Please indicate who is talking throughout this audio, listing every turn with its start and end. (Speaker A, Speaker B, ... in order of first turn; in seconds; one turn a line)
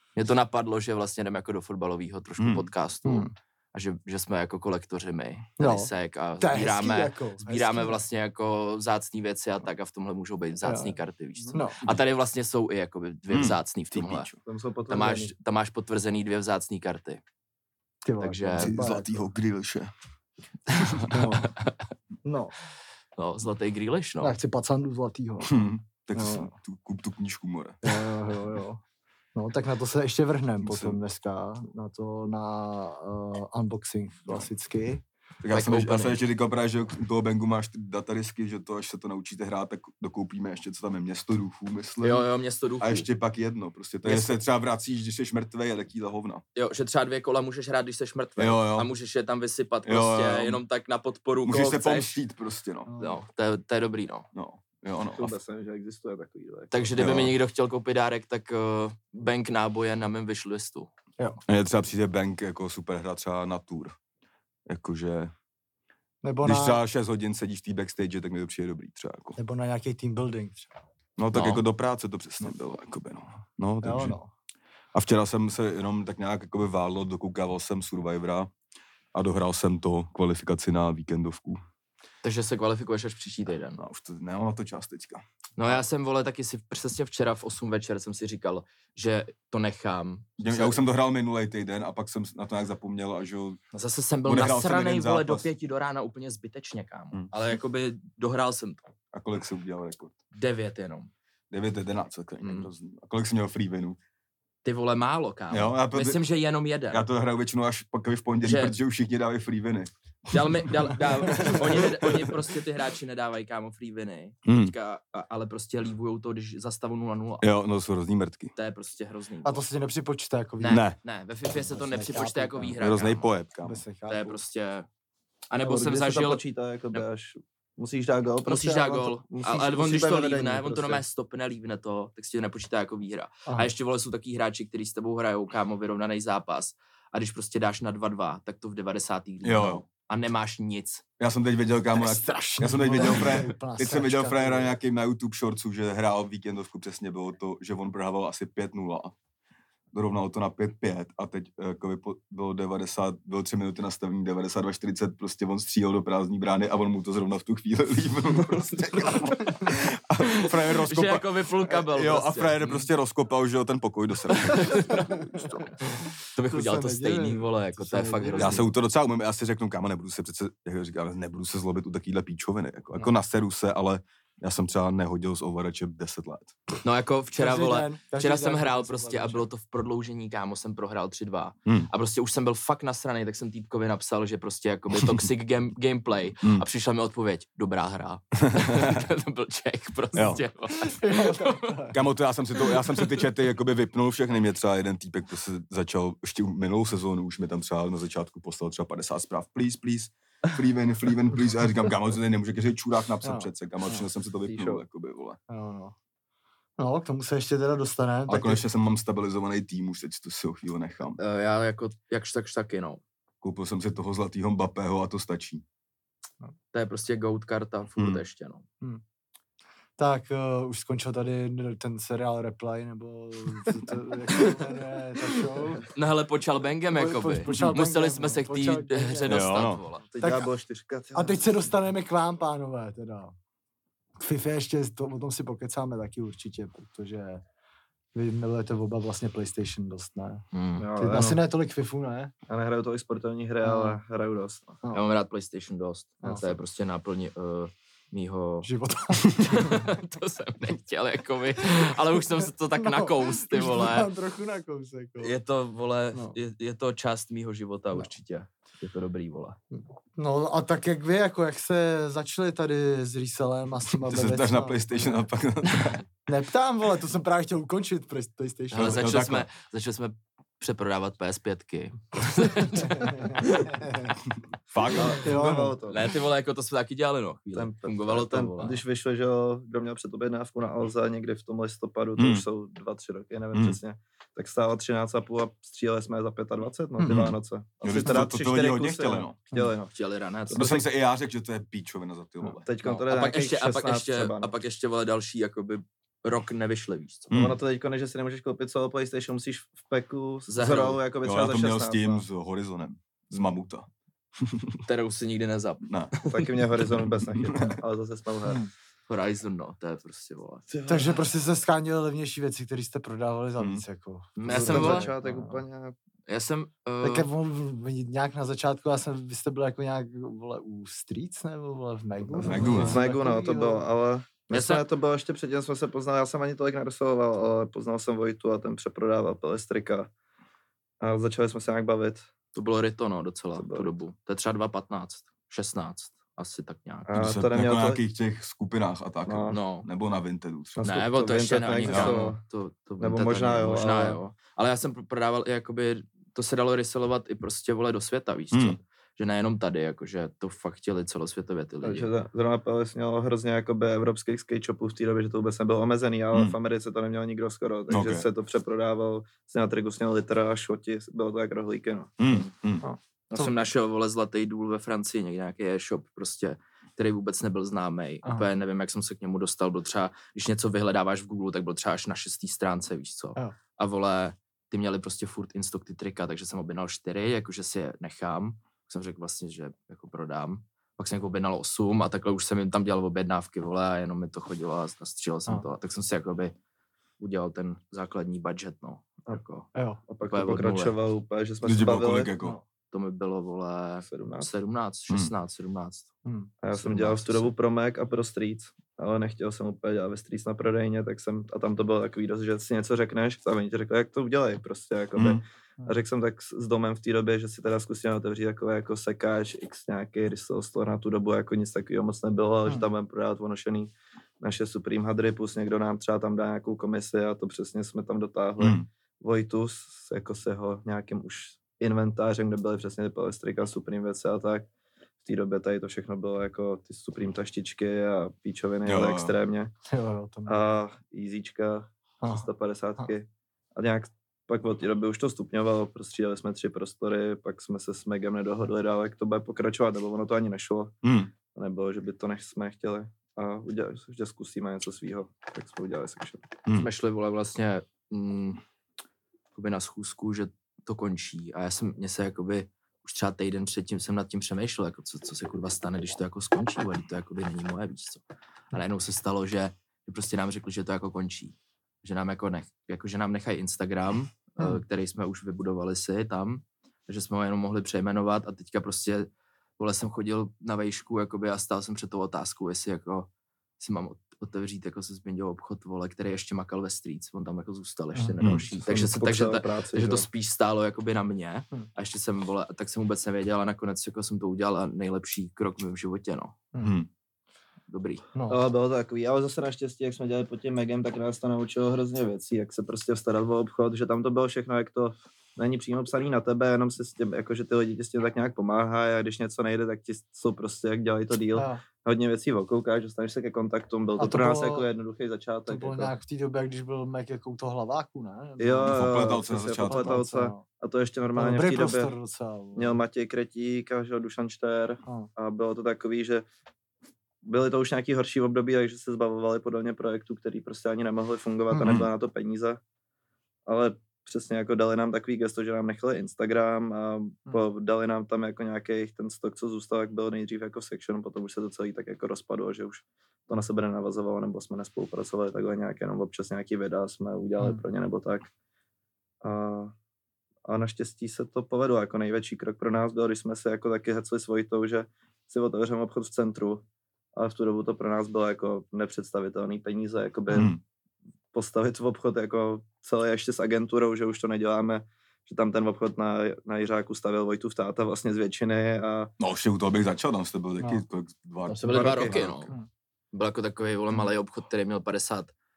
Speaker A: 0.1-14.3
Speaker B: 2.4-2.7
Speaker C: 3.0-3.3
Speaker C: 5.6-8.0
Speaker C: 10.6-11.0
Speaker C: 11.5-11.8
Speaker B: 13.3-14.4
Speaker D: 14.4-15.3
Speaker A: 14.9-17.2
Speaker C: 18.0-19.1
Speaker A: 18.2-18.8
Speaker B: 18.6-19.9
Speaker A: 20.7-21.8
Speaker C: 21.1-21.5
Speaker C: 22.2-22.5
Speaker A: 23.2-24.4
Speaker C: 24.2-25.6
Speaker B: 25.4-27.9
Speaker C: 26.1-26.5
Speaker C: 27.8-28.8
Speaker C: 29.3-35.0
Speaker B: 30.6-31.0
Speaker B: 35.4-42.2
Speaker A: 35.5-36.2
Speaker A: 42.0-43.0
Speaker B: 42.8-46.4
Speaker A: 44.0-44.3
Speaker A: 46.5-52.2
Speaker B: 48.4-48.9
Speaker B: 49.9-50.6
Speaker B: 51.4-52.9
Speaker C: 52.9-53.2
Speaker A: 53.0-54.3
Speaker B: 54.3-55.4
Speaker D: 55.2-57.0
Speaker A: 56.7-60.9
Speaker B: 57.0-57.4
Speaker B: 61.5-64.0
Speaker B: 64.7-65.3
Speaker C: 66.2-66.8
Speaker B: 66.4-69.4
Speaker C: 69.4-70.8
Speaker B: 71.2-74.2
Speaker A: 71.3-71.6
Speaker C: 73.8-74.3
Speaker B: 74.9-78.5
Speaker B: 79.1-81.6
Speaker A: 82.2-83.8
Speaker B: 83.8-85.8
Speaker A: 85.6-90.8
Speaker B: 90.4-93.6
Speaker A: 93.7-98.8
Speaker B: 94.2-95.5
Speaker B: 99.1-100.1
Speaker A: 100.3-101.1
Speaker B: 101.5-104.0
Speaker A: 102.4-102.7
Speaker A: 104.6-107.0
Speaker B: 105.5-106.2
Speaker B: 106.9-112.3
Speaker A: 108.4-108.8
Speaker A: 110.3-117.4
Speaker B: 114.4-114.7
Speaker B: 117.4-118.5
Speaker A: 118.5-119.6
Speaker C: 119.4-120.8
Speaker A: 120.6-123.3
Speaker B: 120.7-121.0
Speaker C: 121.5-122.8
Speaker B: 122.8-123.8
Speaker C: 123.6-124.4
Speaker A: 124.1-124.9
Speaker A: 125.5-126.4
Speaker D: 125.6-131.0
Speaker A: 128.4-141.0
Speaker B: 139.4-139.8
Speaker B: 141.2-149.1
Speaker C: 141.9-144.8
Speaker B: 149.9-165.7
Speaker A: 158.4-159.7
Speaker A: 160.4-162.9
Speaker A: 164.4-165.2
Speaker C: 165.8-168.6
Speaker A: 166.3-168.7
Speaker B: 168.4-176.6
Speaker A: 176.8-191.9
Speaker C: 177.4-179.4
Speaker B: 188.4-189.0
Speaker B: 190.1-190.4
Speaker C: 190.9-192.0
Speaker B: 191.9-205.4
Speaker C: 203.2-204.0
Speaker C: 205.5-205.9
Speaker C: 206.8-208.6
Speaker B: 208.3-211.2
Speaker A: 211.2-213.0
Speaker B: 213.4-215.6
Speaker A: 216.7-218.6
Speaker B: 217.9-218.2
Speaker C: 220.0-225.9
Speaker A: 225.8-230.1
Speaker C: 226.9-229.5
Speaker B: 229.2-229.8
Speaker D: 230.1-231.7
Speaker C: 230.2-230.5
Speaker C: 231.1-233.3
Speaker C: 234.2-237.4
Speaker C: 238.1-240.4
Speaker A: 240.5-240.9
Speaker D: 240.8-241.4
Speaker C: 240.9-242.3
Speaker D: 242.5-244.8
Speaker C: 243.6-244.0
Speaker A: 244.9-254.1
Speaker C: 248.6-249.9
Speaker C: 252.8-255.3
Speaker A: 255.2-259.6
Speaker C: 259.7-265.3
Speaker B: 264.0-266.0
Speaker C: 266.3-269.1
Speaker A: 268.7-273.9
Speaker B: 268.8-269.5
Speaker C: 273.0-274.1
Speaker B: 274.7-275.4
Speaker D: 274.9-276.1
Speaker C: 275.2-275.8
Speaker A: 275.9-278.8
Speaker D: 277.5-289.9
Speaker B: 282.2-282.4
Speaker B: 287.1-289.4
Speaker A: 289.9-290.8
Speaker D: 290.5-290.8
Speaker B: 290.5-292.7
Speaker D: 292.6-294.5
Speaker A: 292.8-297.3
Speaker B: 297.3-297.6
Speaker D: 297.3-302.2
Speaker A: 300.5-301.0
Speaker B: 301.2-304.8
Speaker A: 304.9-306.6
Speaker B: 305.8-306.1
Speaker D: 306.3-308.6
Speaker B: 307.4-307.8
Speaker C: 308.4-308.7
Speaker A: 309.1-310.7
Speaker D: 310.7-311.2
Speaker C: 310.9-315.6
Speaker B: 313.6-313.8
Speaker A: 314.4-315.1
Speaker D: 314.4-315.9
Speaker A: 316.3-317.3
Speaker C: 317.0-323.9
Speaker D: 322.4-330.1
Speaker B: 322.4-323.0
Speaker A: 324.5-324.8
Speaker D: 331.0-332.3
Speaker A: 332.5-337.1
Speaker D: 333.5-333.9
Speaker D: 337.1-338.0
Speaker B: 337.1-340.9
Speaker D: 339.2-339.6
Speaker A: 339.5-339.9
Speaker D: 340.8-342.4
Speaker A: 340.8-352.1
Speaker B: 341.9-342.2
Speaker D: 343.0-344.2
Speaker B: 348.5-348.8
Speaker D: 351.8-362.5
Speaker B: 357.9-358.2
Speaker B: 362.2-362.9
Speaker C: 362.8-363.5
Speaker A: 363.3-386.5
Speaker A: 387.2-389.7
Speaker C: 389.7-390.0
Speaker D: 390.1-392.3
Speaker A: 390.2-391.0
Speaker B: 391.6-392.6
Speaker A: 392.9-396.1
Speaker D: 394.0-394.5
Speaker C: 396.2-396.5
Speaker D: 396.6-424.7
Speaker A: 396.7-397.5
Speaker B: 405.1-405.4
Speaker B: 418.6-418.9
Speaker D: 425.2-429.7
Speaker B: 428.8-429.3
Speaker C: 429.9-430.6
Speaker D: 430.4-446.5
Speaker C: 432.2-432.5
Speaker B: 441.0-441.3
Speaker B: 446.6-446.9
Speaker A: 446.7-448.6
Speaker A: 449.5-473.3
Speaker A: 473.8-486.6
Speaker C: 478.1-478.6
Speaker B: 478.4-478.7
Speaker D: 478.9-480.3
Speaker B: 486.8-487.1
Speaker A: 487.9-488.2
Speaker C: 488.3-488.6
Speaker D: 488.5-506.1
Speaker C: 501.5-501.8
Speaker C: 504.2-504.9
Speaker C: 505.7-510.6
Speaker D: 508.6-512.1
Speaker B: 508.8-510.2
Speaker C: 511.3-513.0
Speaker D: 512.8-516.4
Speaker D: 517.4-522.8
Speaker C: 521.7-522.0
Speaker B: 521.8-522.1
Speaker D: 523.6-538.5
Speaker D: 539.4-539.9
Speaker D: 540.6-546.8
Speaker D: 547.4-550.7
Speaker B: 550.5-550.8
Speaker D: 551.5-559.3
Speaker B: 559.4-562.7
Speaker C: 560.8-561.0
Speaker A: 561.7-562.7
Speaker D: 561.8-562.4
Speaker A: 563.3-565.5